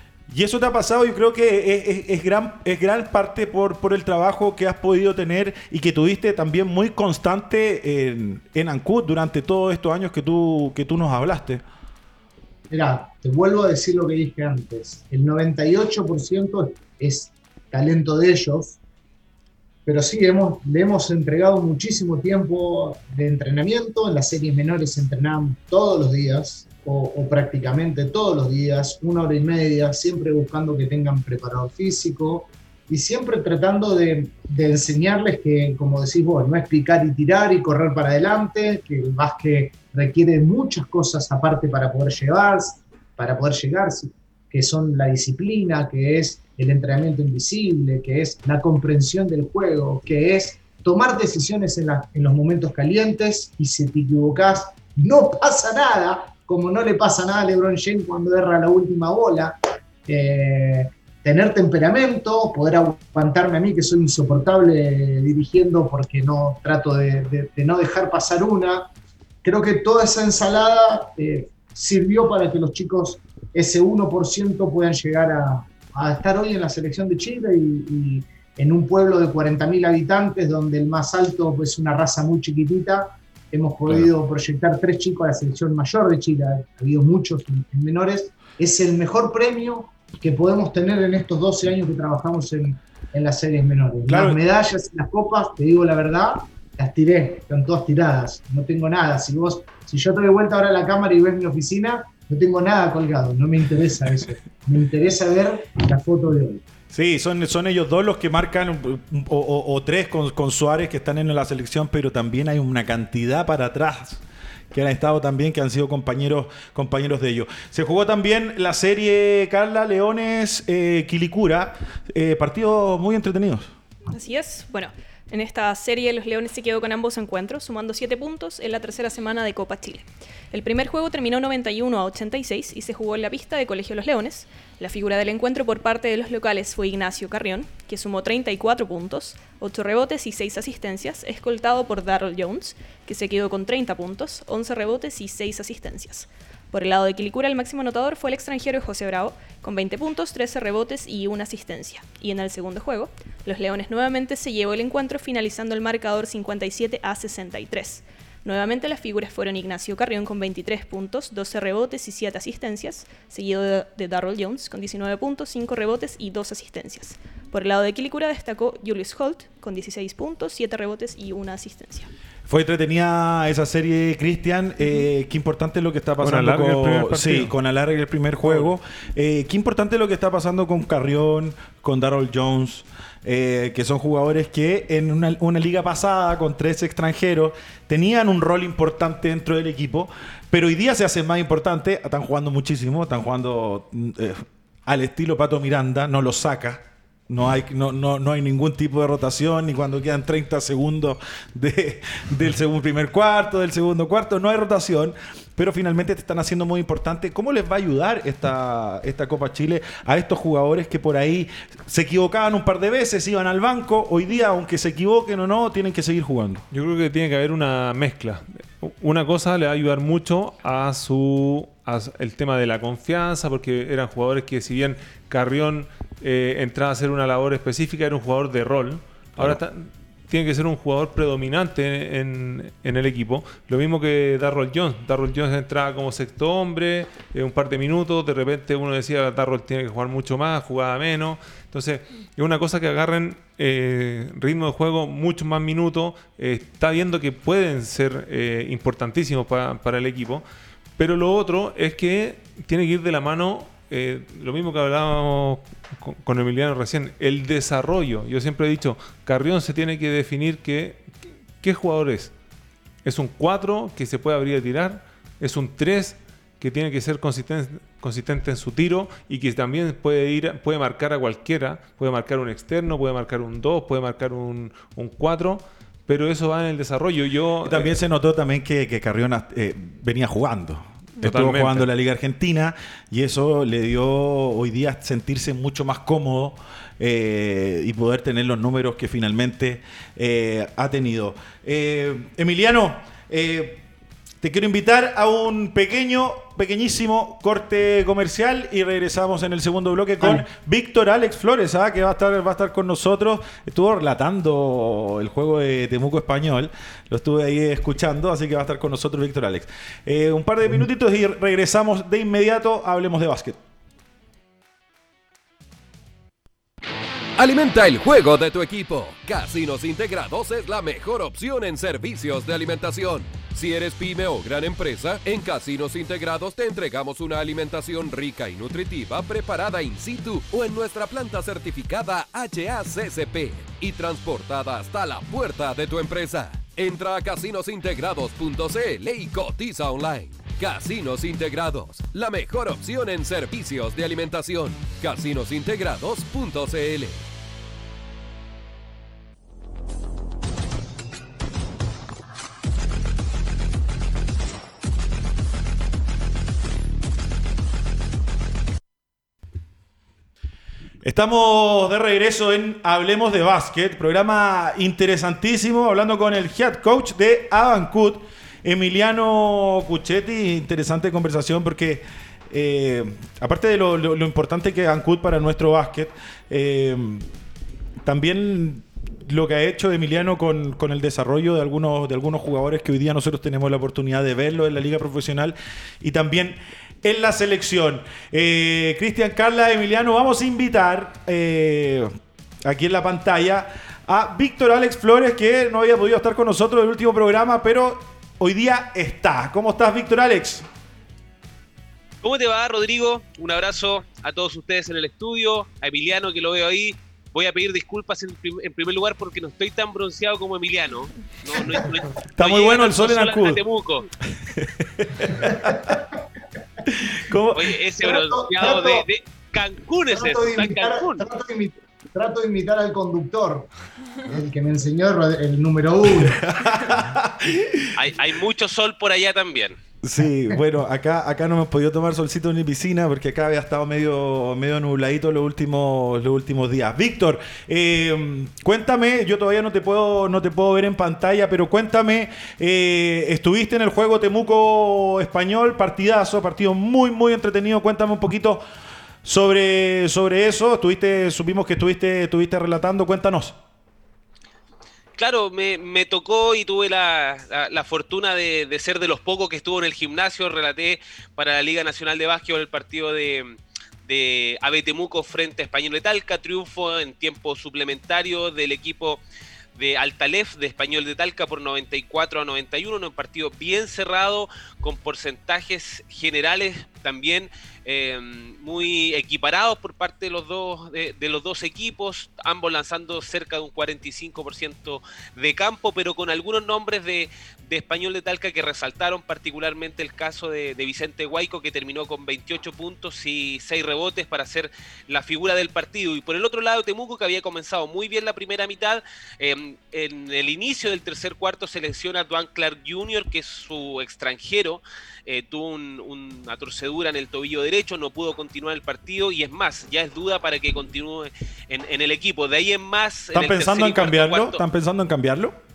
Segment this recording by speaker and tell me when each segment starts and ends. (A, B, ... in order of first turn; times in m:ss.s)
0:00.3-0:11.6 A
0:12.7-0:18.8 B
0:19.8-0:59.5 B
1:00.0-1:08.9 B
1:09.4-1:46.6 B
1:34.1-1:34.4 A
1:46.9-2:03.7 A
2:04.1-2:52.1 C
2:52.5-3:36.6 A
2:56.2-2:57.5 D
2:58.4-2:58.7 D
3:36.7-4:10.4 D
4:11.0-4:21.1 D
4:21.6-4:22.3 D
4:23.0-4:37.9 D
4:37.6-4:53.8 A
4:41.2-4:41.9 D
4:54.4-5:13.6 A
5:17.4-5:47.2 E
6:01.0-6:17.2 A
6:18.0-6:32.1 A
6:32.6-6:40.6 A
6:42.2-6:54.0 F
6:52.4-6:53.6 A
6:54.4-6:56.0 A
6:55.4-6:56.0 B
6:56.9-6:57.7 A
6:57.5-7:01.3 F
6:58.0-6:59.0 B
7:00.1-7:03.7 B
7:04.2-7:06.5 B
7:06.1-7:08.0 A
7:07.9-7:09.8 F
7:10.0-7:28.6 A
7:29.2-7:33.6 A
7:35.2-7:49.2 F
7:49.8-8:34.6 F
8:33.3-8:35.5 A